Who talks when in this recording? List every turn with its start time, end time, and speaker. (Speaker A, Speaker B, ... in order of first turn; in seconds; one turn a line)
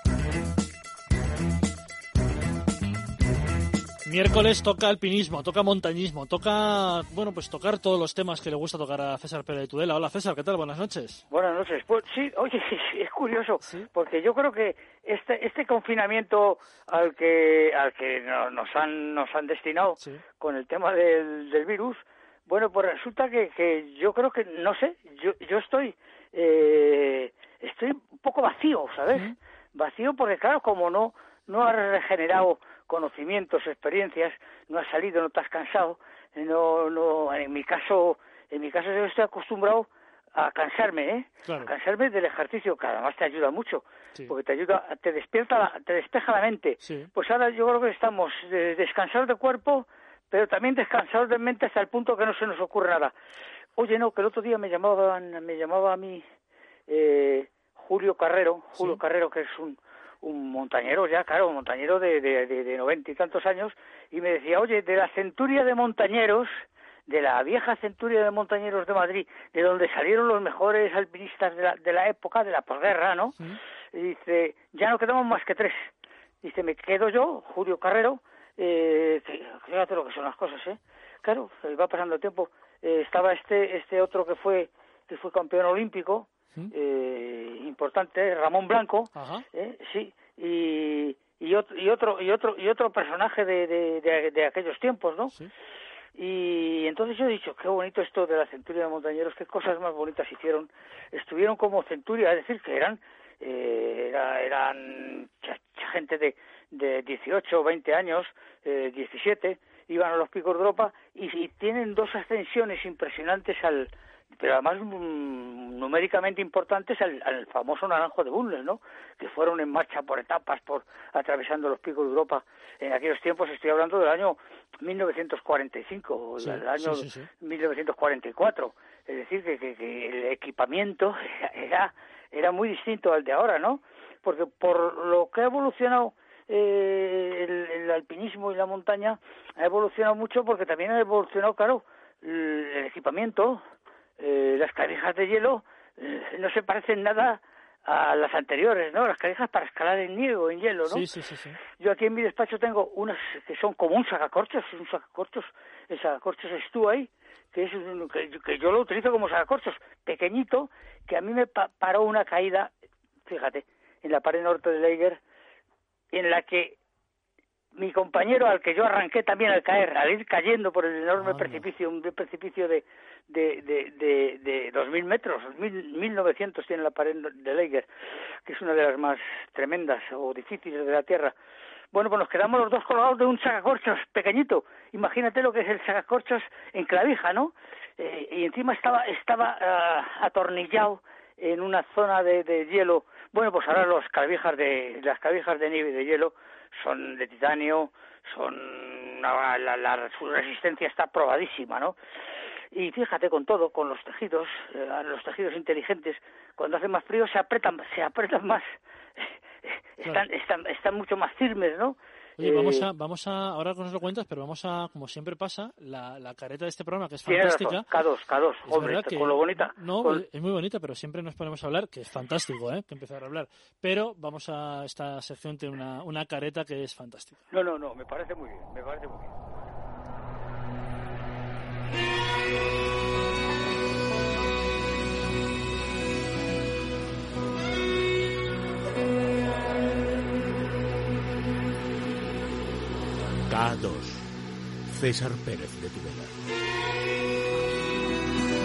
Speaker A: 4.0-11.2
Speaker B: 11.3-53.1
Speaker A: 13.6-13.9
Speaker A: 29.1-29.3
Speaker A: 41.4-41.7
Speaker A: 46.8-47.1
Speaker B: 53.8-56.2
Speaker B: 56.9-73.4
Speaker B: 73.9-75.9
Speaker B: 76.4-95.3
Speaker A: 89.1-89.5
Speaker B: 96.1-143.6
Speaker A: 126.4-127.3
Speaker B: 144.2-151.1
Speaker A: 150.8-151.6
Speaker B: 151.8-162.7
Speaker B: 163.2-165.2
Speaker B: 166.1-166.8
Speaker B: 167.8-177.9
Speaker A: 171.2-171.7
Speaker B: 178.4-181.3
Speaker B: 181.9-201.9
Speaker B: 202.7-208.6
Speaker B: 209.6-212.9
Speaker A: 212.4-217.9
Speaker B: 217.2-220.2
Speaker A: 218.6-227.5
Speaker B: 227.5-229.4
Speaker C: 243.4-244.3
Speaker C: 244.9-246.4